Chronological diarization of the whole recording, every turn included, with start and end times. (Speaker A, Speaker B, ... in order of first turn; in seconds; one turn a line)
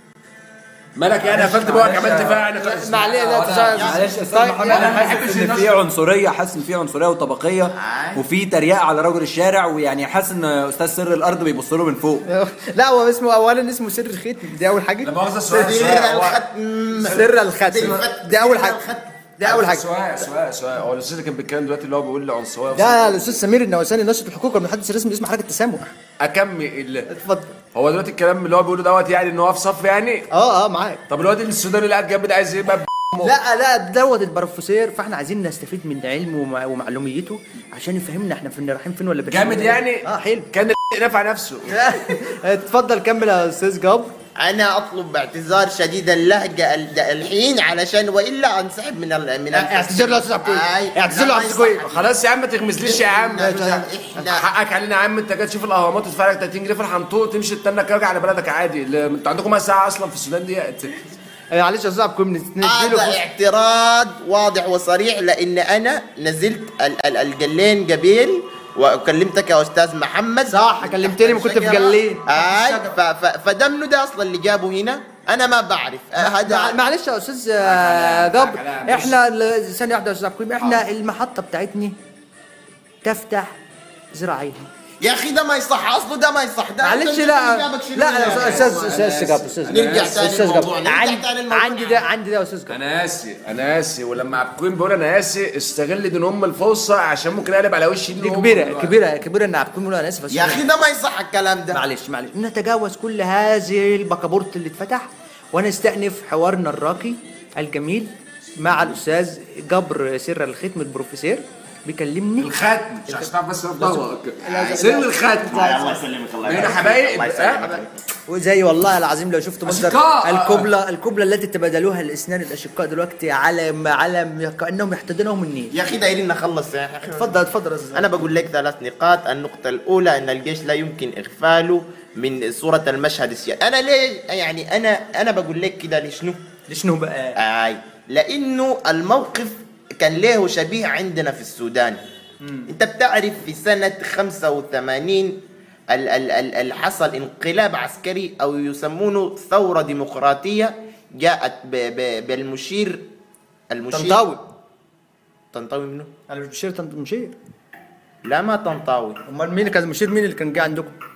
Speaker A: 0.9-4.0
Speaker B: 1.2-2.4
Speaker C: 2.6-5.4
Speaker B: 3.7-12.3
Speaker A: 4.6-5.8
Speaker D: 7.8-8.2
Speaker C: 12.3-15.1
Speaker A: 15.0-16.4
Speaker D: 15.5-19.1
Speaker C: 17.0-18.8
Speaker C: 19.4-19.9
Speaker A: 19.4-23.4
Speaker C: 22.7-25.9
Speaker A: 26.2-27.1
Speaker C: 27.1-27.6
Speaker A: 27.7-30.3
Speaker C: 30.3-31.0
Speaker A: 31.1-33.3
Speaker C: 33.2-40.5
Speaker A: 39.3-41.8
Speaker C: 41.7-44.1
Speaker D: 44.4-52.1
Speaker C: 49.5-51.8
Speaker A: 51.8-60.9
Speaker D: 52.8-54.5
Speaker C: 53.4-53.9
Speaker C: 61.5-63.2
Speaker D: 62.6-76.8
Speaker C: 70.5-72.9
Speaker C: 76.2-82.0
Speaker A: 77.6-79.2
Speaker C: 83.0-83.5
Speaker C: 84.1-84.7
Speaker D: 85.0-88.9
Speaker C: 86.8-92.8
Speaker A: 88.2-90.3
Speaker D: 89.7-92.0
Speaker A: 92.7-98.9
Speaker C: 98.2-100.6
Speaker D: 100.3-101.8
Speaker C: 101.7-112.5
Speaker A: 112.4-115.8
Speaker C: 113.1-116.0
Speaker D: 114.5-117.9
Speaker A: 116.4-117.8
Speaker C: 118.3-125.7
Speaker A: 119.7-120.7
Speaker D: 125.7-127.4
Speaker C: 127.2-128.1
Speaker D: 127.9-136.4
Speaker C: 136.7-137.4
Speaker D: 137.4-142.0
Speaker C: 142.4-142.7
Speaker D: 142.7-145.4
Speaker D: 145.9-153.0
Speaker D: 153.7-154.2
Speaker C: 153.9-154.4
Speaker D: 155.5-156.1
Speaker C: 156.3-157.3
Speaker D: 158.2-159.2
Speaker C: 159.3-160.9